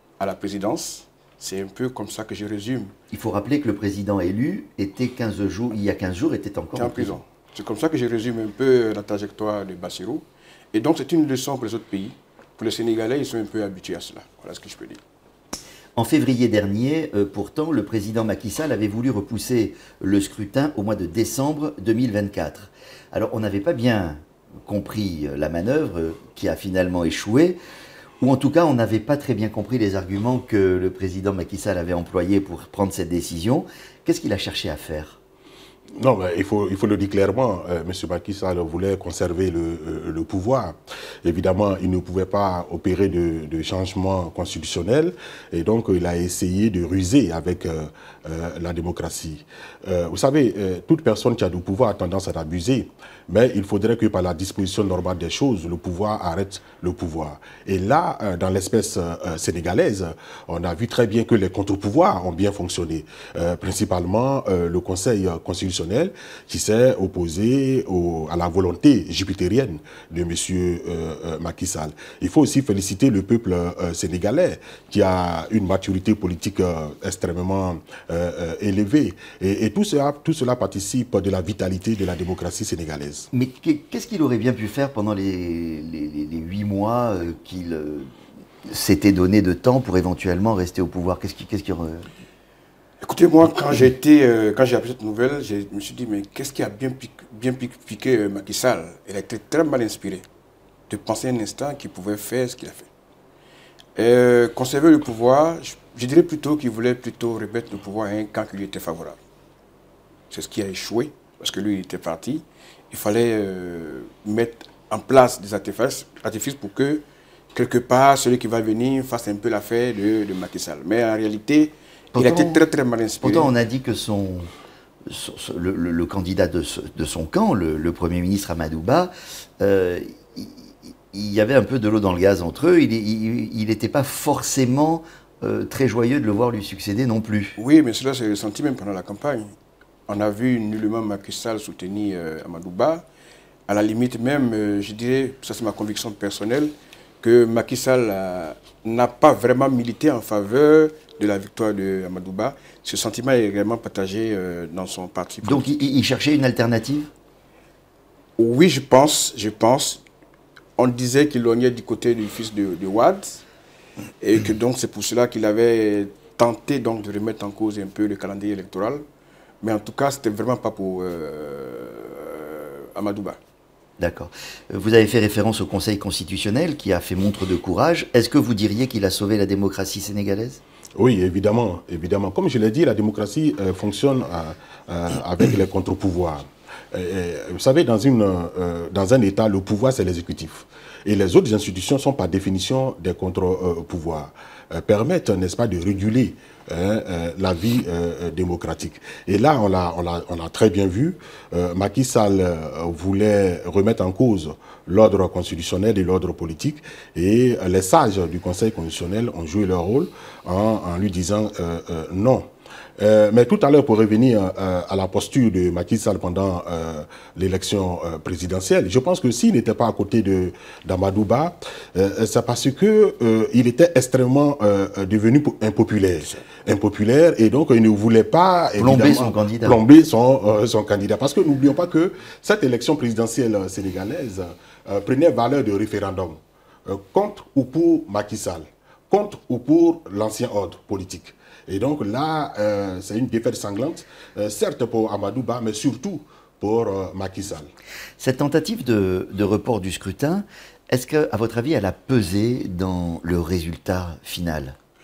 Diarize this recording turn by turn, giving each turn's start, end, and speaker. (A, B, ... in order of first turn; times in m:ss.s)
0:00.2-0:02.9 A
0:03.1-0:07.2 B
0:06.8-0:15.0 A
0:16.0-0:27.6 B
0:28.2-0:35.2 B
0:36.0-1:23.3 C
1:23.3-1:28.1 B
1:28.7-1:32.1 B
1:33.0-1:40.2 A
1:40.9-1:42.9 A
1:44.0-1:49.2 A
1:50.3-2:03.5 A
2:02.1-2:02.6 B
2:03.2-2:04.5 B
2:05.1-2:17.6 B
2:17.6-2:19.5 A
2:20.1-2:23.1 A
2:23.7-2:35.8 A
2:35.4-2:37.1 B
2:38.4-2:40.0 A
2:40.8-2:43.4 A
2:44.2-2:49.0 A
2:49.6-2:53.4 A
2:54.0-3:00.6 B
3:01.0-4:07.7 C
3:48.8-3:49.8 B
4:08.2-4:14.8 B